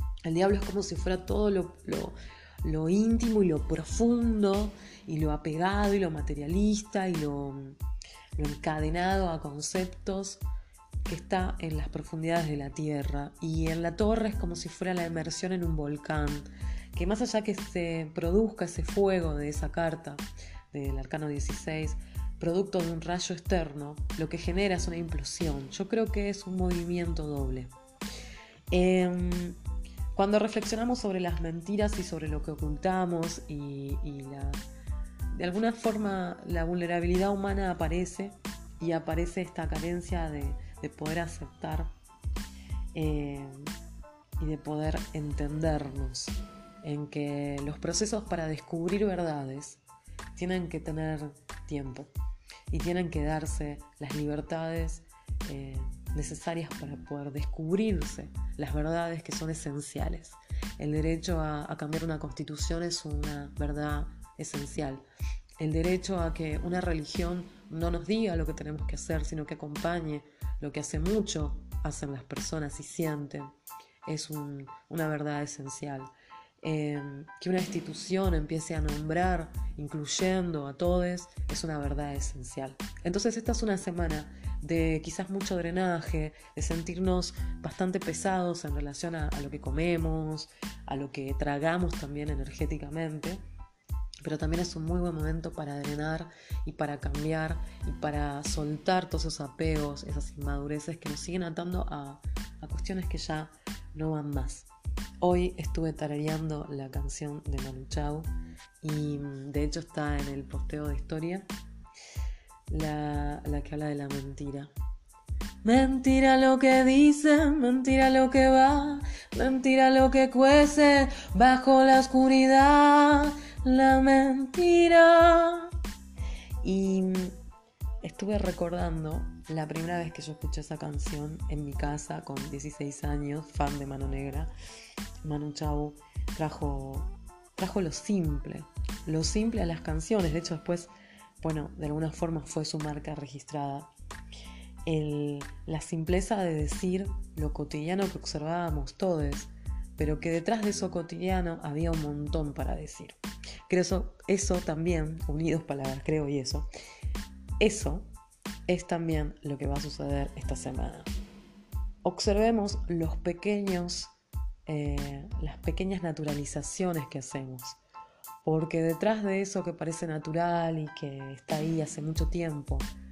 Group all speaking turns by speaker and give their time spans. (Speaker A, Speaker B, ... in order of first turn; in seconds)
Speaker A: 0.2-7.8, 8.3-10.4, 11.1-27.7, 28.7-29.6, 30.1-34.6, 35.3-41.9, 42.9-43.7, 44.4-49.8, 50.4-52.1, 52.7-65.0, 65.6-73.5, 74.0-76.1, 76.6-93.4, 94.2-104.7, 105.2-108.3, 108.8-111.5, 112.7-114.7, 115.6-125.7, 126.6-127.3, 128.0-134.5, 135.2-143.9, 144.9-156.7, 157.6-158.1, 158.7-161.1, 162.0-164.1, 164.7-167.8, 168.4-172.9